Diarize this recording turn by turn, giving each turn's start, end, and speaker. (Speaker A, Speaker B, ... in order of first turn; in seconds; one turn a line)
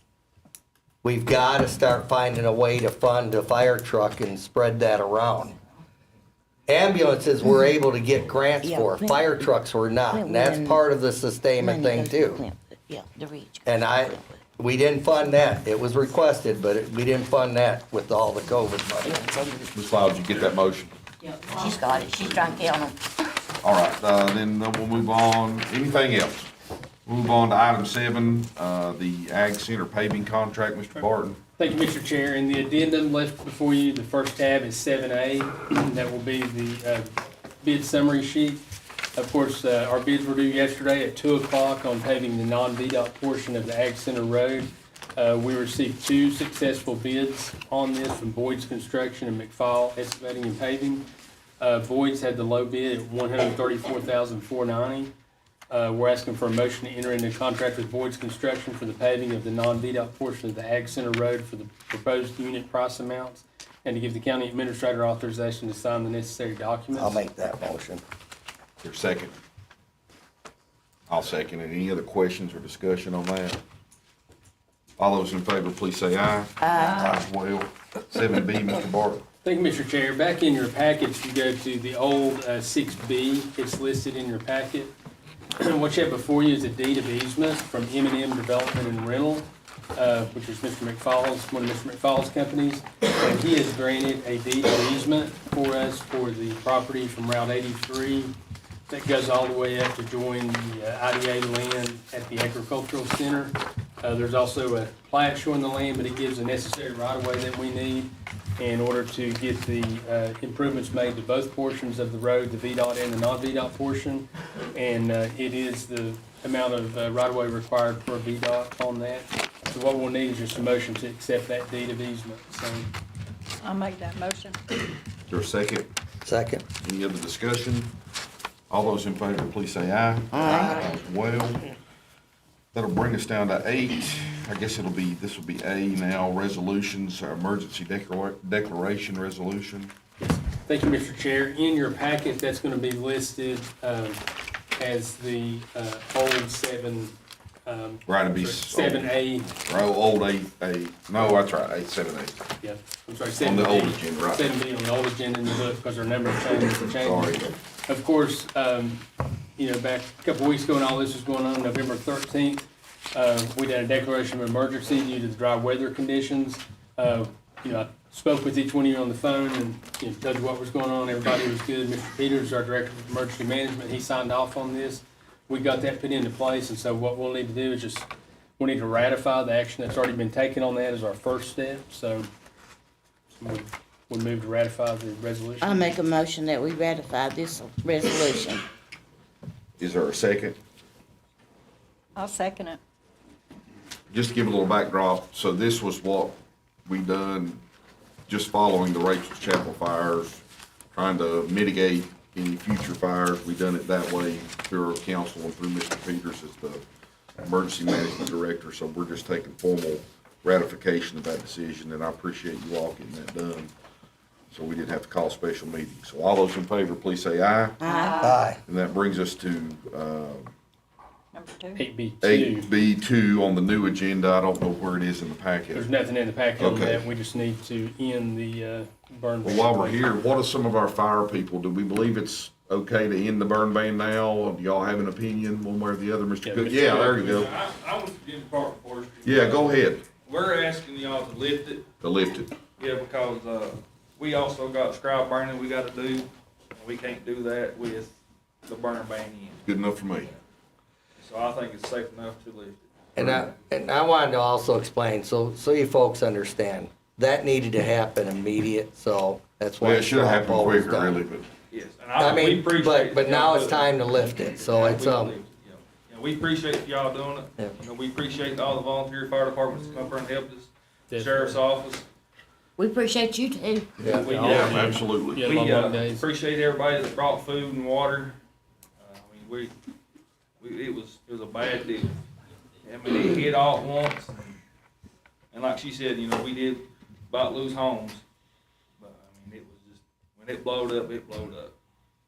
Speaker A: 1.0-5.6
Speaker A: 6.7-12.4
Speaker B: 8.6-9.4
Speaker B: 10.1-10.8
Speaker B: 11.6-14.4
Speaker A: 13.7-19.2
Speaker B: 19.0-19.7
Speaker C: 19.7-20.9
Speaker B: 21.4-23.1
Speaker C: 23.6-26.5
Speaker C: 27.1-31.4
Speaker D: 31.6-38.6
Speaker D: 39.2-51.0
Speaker D: 51.6-55.1
Speaker D: 55.7-67.2
Speaker A: 67.0-68.0
Speaker C: 68.8-69.3
Speaker C: 71.1-73.6
Speaker C: 75.0-79.2
Speaker B: 76.6-77.1
Speaker D: 79.4-84.9
Speaker D: 85.6-98.3
Speaker D: 98.9-122.9
Speaker E: 123.6-124.6
Speaker C: 125.3-125.9
Speaker A: 126.2-126.6
Speaker C: 126.8-127.9
Speaker C: 128.7-131.7
Speaker B: 130.3-131.0
Speaker C: 132.7-139.9
Speaker D: 140.2-144.2
Speaker D: 144.8-149.5
Speaker C: 148.1-152.4
Speaker D: 152.6-159.0
Speaker C: 153.4-154.5
Speaker C: 156.8-157.6
Speaker D: 159.6-182.3
Speaker D: 183.4-185.9
Speaker B: 185.6-188.7
Speaker C: 189.8-190.6
Speaker E: 192.2-192.8
Speaker C: 194.1-197.6
Speaker C: 198.3-206.8
Speaker C: 207.4-213.7
Speaker C: 214.5-217.8
Speaker B: 217.8-218.3
Speaker E: 217.8-218.4
Speaker A: 218.2-218.6
Speaker C: 218.7-220.5
Speaker E: 221.3-221.8
Speaker D: 221.8-222.7
Speaker C: 222.2-225.8
Speaker D: 225.7-230.0
Speaker C: 226.6-227.0
Speaker C: 229.4-237.5
Speaker D: 236.4-237.4
Speaker F: 237.2-241.8
Speaker C: 239.2-240.0
Speaker C: 242.0-242.5
Speaker F: 242.8-248.1
Speaker F: 248.7-249.6
Speaker C: 249.7-250.3
Speaker F: 251.2-252.8
Speaker A: 253.2-261.2
Speaker C: 259.8-261.5
Speaker F: 261.7-272.1
Speaker A: 262.2-265.3
Speaker D: 271.1-271.6
Speaker B: 272.8-274.0
Speaker A: 274.0-274.3
Speaker D: 274.0-276.2
Speaker F: 274.1-278.4
Speaker C: 274.4-275.4
Speaker F: 279.0-279.7
Speaker F: 280.6-282.2
Speaker F: 282.8-284.6
Speaker F: 285.5-288.2
Speaker F: 289.0-291.7